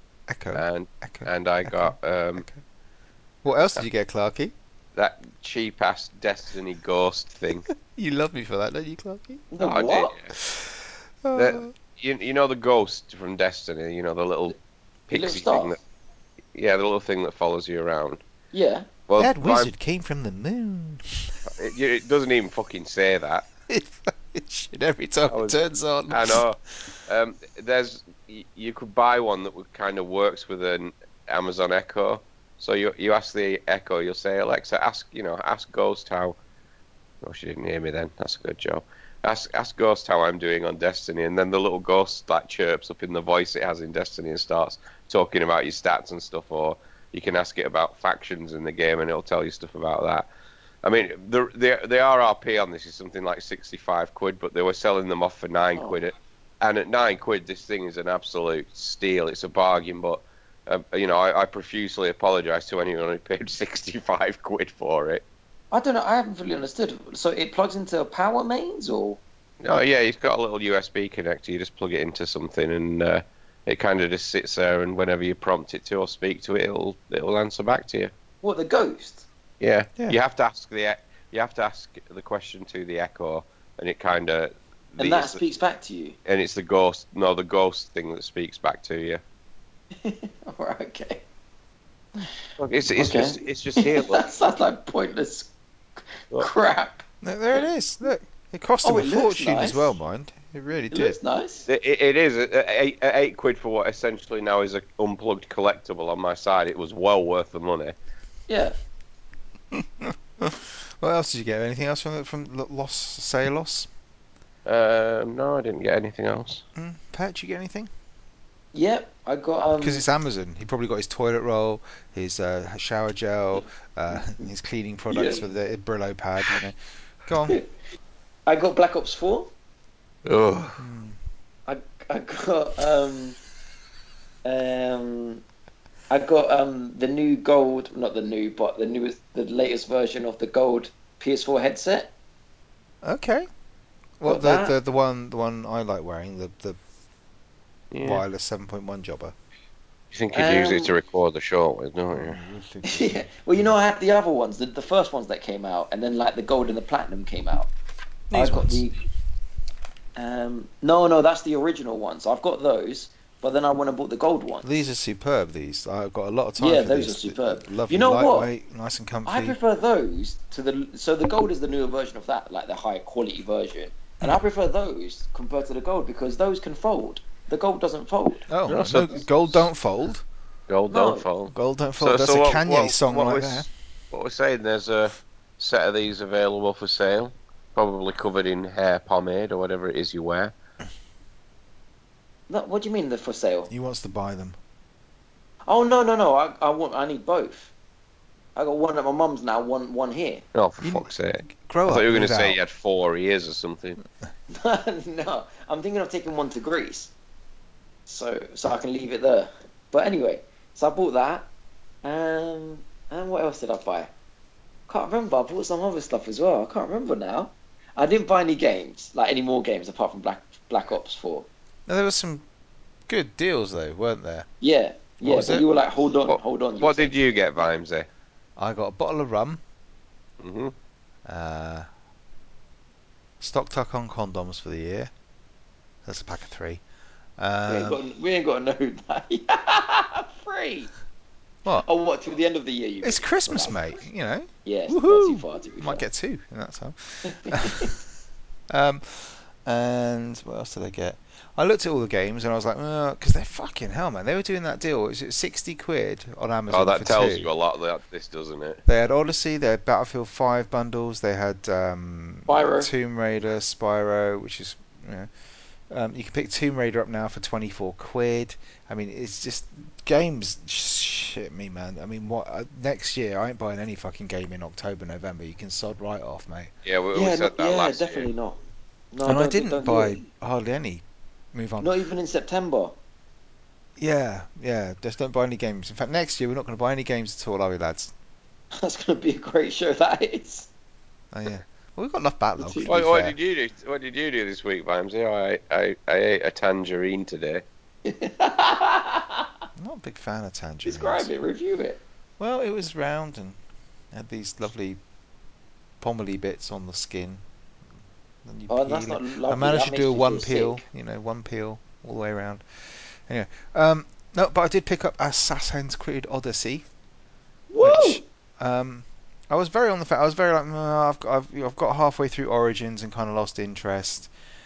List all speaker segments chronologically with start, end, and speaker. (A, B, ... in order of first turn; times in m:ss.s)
0:00.3-0:02.6 A
0:00.5-0:02.4 B
0:03.4-0:04.5 A
0:05.0-0:07.7 B
0:07.8-0:09.5 A
0:09.5-0:10.1 C
0:09.6-0:10.3 B
0:10.4-0:11.7 A
0:11.4-0:14.6 B
0:15.1-0:15.8 B
0:15.1-0:15.8 C
0:16.5-0:18.2 B
0:18.5-0:18.9 C
0:19.1-0:19.7 B
0:19.2-0:21.4 A
0:21.5-0:23.4 B
0:23.7-0:26.4 A
0:25.3-0:25.6 B
0:26.1-0:36.4 B
0:37.2-0:50.2 B
0:50.8-1:05.2 B
1:05.7-1:09.2 C
1:09.6-1:18.1 B
1:18.4-1:19.3 C
1:19.6-1:25.4 B
1:25.0-1:26.1 C
1:26.2-1:29.2 B
1:30.0-1:31.2 C
1:32.6-1:34.2 B
1:32.9-1:35.5 C
1:36.2-1:37.0 C
1:37.2-1:41.2 A
1:38.8-1:39.9 C
1:40.9-1:41.7 C
1:41.7-1:47.9 B
1:48.5-1:48.7 C
1:49.7-1:53.9 A
1:54.6-1:56.6 B
1:56.8-1:57.9 A
1:58.7-2:00.0 C
1:59.8-2:07.6 A
2:05.1-2:05.4 C
2:08.4-2:09.5 C
2:10.2-2:10.8 B
2:10.8-2:11.2 A
2:11.7-2:13.4 C
2:14.4-2:15.4 C
2:16.1-2:22.1 C
2:23.0-2:23.5 A
2:24.2-2:26.8 A
2:24.2-2:24.8 C
2:27.9-2:28.2 B
2:28.0-2:29.3 A
2:30.1-2:32.4 B
2:30.3-2:30.9 C
2:32.1-2:33.3 A
2:32.8-2:37.7 C
2:38.3-2:38.8 A
2:38.3-2:38.9 C
2:40.2-2:44.7 C
2:44.6-2:49.6 A
2:46.6-2:48.5 C
2:49.2-2:58.4 C
2:58.5-3:00.2 A
2:58.7-2:59.6 B
3:00.7-3:10.5 B
3:00.9-3:01.2 C
3:01.5-3:03.7 A
3:12.5-3:13.7 C
3:13.7-3:14.6 A
3:15.7-3:17.7 C
3:18.6-3:20.4 C
3:20.5-3:24.0 B
3:20.8-3:22.6 A
3:24.5-3:27.1 C
3:28.0-3:31.5 C
3:32.0-3:34.1 C
3:34.9-3:41.5 C
3:41.9-3:42.4 A
3:43.1-3:44.5 A
3:44.6-3:47.2 C
3:45.2-3:45.6 A
3:46.3-3:48.1 B
3:48.6-3:49.6 A
3:50.4-3:50.7 B
3:51.2-3:51.9 A
3:53.4-3:55.1 A
3:56.0-3:56.8 A
3:57.4-3:58.0 A
3:57.7-4:00.9 C
4:01.8-4:03.9 C
4:03.0-4:08.0 A
4:04.6-4:06.0 C
4:07.2-4:07.9 C
4:08.7-4:17.5 A
4:16.7-4:18.8 B
4:18.8-4:25.3 A
4:22.5-4:22.9 C
4:25.9-4:36.7 A
4:36.8-4:38.3 B
4:37.1-4:38.6 C
4:39.1-4:40.2 C
4:39.2-4:41.9 A
4:41.8-4:43.0 C
4:44.0-4:48.1 A
4:48.7-4:50.7 C
4:51.3-4:53.4 A
4:52.6-4:52.9 C
4:52.8-4:57.6 B
4:58.0-4:59.4 C
4:59.8-5:01.3 A
5:00.8-5:02.0 C
5:02.4-5:03.6 A
5:04.1-5:05.0 A
5:06.0-5:07.4 A
5:08.4-5:16.8 A
5:08.7-5:10.8 C
5:17.7-5:18.2 C
5:17.8-5:24.3 A